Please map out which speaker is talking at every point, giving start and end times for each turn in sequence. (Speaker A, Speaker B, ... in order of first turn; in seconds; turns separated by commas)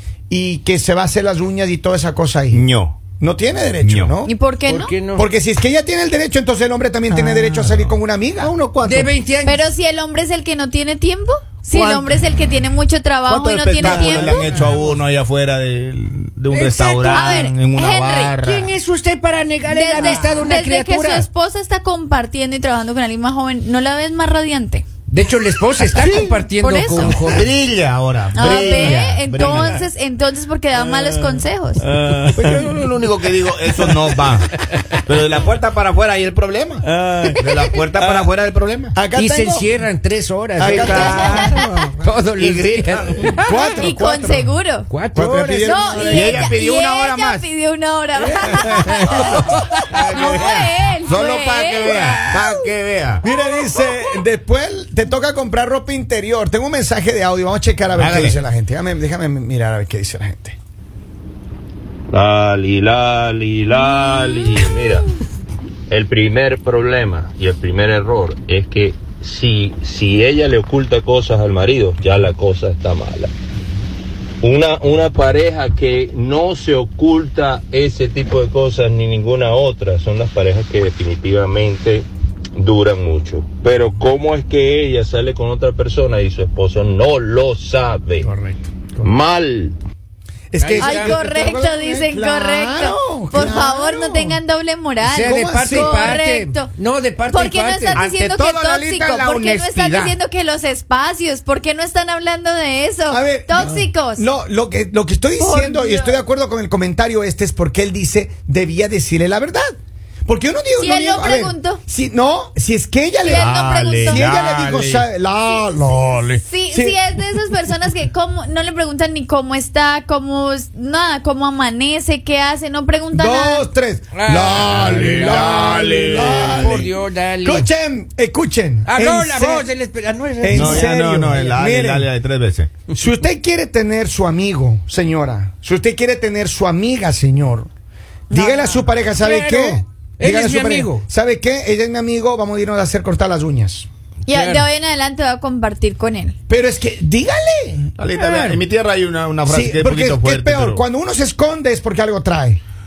Speaker A: 0.3-2.6, Speaker B: 2.5-3.0, Speaker A: 3.2-8.5, Speaker B: 3.8-4.1, Speaker C: 4.2-4.9, Speaker D: 4.7-5.2, Speaker B: 7.1-9.2, Speaker D: 8.8-9.6, Speaker C: 9.4-14.5, Speaker E: 11.7-12.0, Speaker B: 13.3-18.7, Speaker A: 13.8-14.6, Speaker D: 16.5-17.3, Speaker E: 16.6-17.0, Speaker C: 17.1-18.4, Speaker D: 18.4-21.2, Speaker C: 19.7-24.8, Speaker D: 25.1-27.4, Speaker B: 25.9-26.4, Speaker C: 26.5-27.1, Speaker B: 27.1-29.9, Speaker C: 28.3-31.8, Speaker A: 31.1-32.8, Speaker B: 32.3-39.0, Speaker A: 33.7-34.1, Speaker A: 36.8-38.3, Speaker A: 38.9-39.7, Speaker D: 39.1-40.8, Speaker A: 40.6-41.5, Speaker B: 40.6-43.4, Speaker C: 40.8-41.9, Speaker D: 42.0-43.3, Speaker E: 42.7-43.4, Speaker A: 43.4-44.5, Speaker C: 43.7-44.9, Speaker D: 44.9-45.9, Speaker A: 45.1-46.5, Speaker C: 45.6-52.6, Speaker B: 45.9-47.4, Speaker B: 49.4-53.2, Speaker A: 53.2-60.5, Speaker C: 53.2-54.1, Speaker B: 57.9-58.4, Speaker B: 62.3-63.0, Speaker B: 63.8-64.7, Speaker E: 66.9-68.1, Speaker E: 69.1-71.4, Speaker E: 79.0-81.8, Speaker E: 84.9-88.2, Speaker A: 88.2-89.2, Speaker E: 89.3-89.6, Speaker A: 90.5-94.4, Speaker D: 90.6-91.1, Speaker E: 90.6-90.9, Speaker C: 90.8-96.7, Speaker D: 95.1-98.1, Speaker A: 95.2-96.2, Speaker C: 97.3-104.3, Speaker B: 97.9-100.2, Speaker A: 103.1-109.7, Speaker C: 105.4-106.2, Speaker A: 110.2-117.0, Speaker C: 110.8-111.8, Speaker C: 113.2-114.3, Speaker B: 113.2-115.1, Speaker B: 116.0-116.4, Speaker C: 116.4-123.7, Speaker A: 123.1-129.7, Speaker D: 124.1-127.7, Speaker E: 124.4-125.2, Speaker B: 124.6-126.9, Speaker D: 128.9-130.7, Speaker E: 129.6-130.5, Speaker A: 130.4-132.1, Speaker B: 130.5-132.7, Speaker A: 132.9-137.7, Speaker C: 138.3-139.4, Speaker A: 138.3-143.9, Speaker D: 139.7-141.0, Speaker C: 144.3-146.3, Speaker A: 146.5-147.9, Speaker B: 148.0-150.8, Speaker E: 148.2-148.5, Speaker A: 149.4-152.6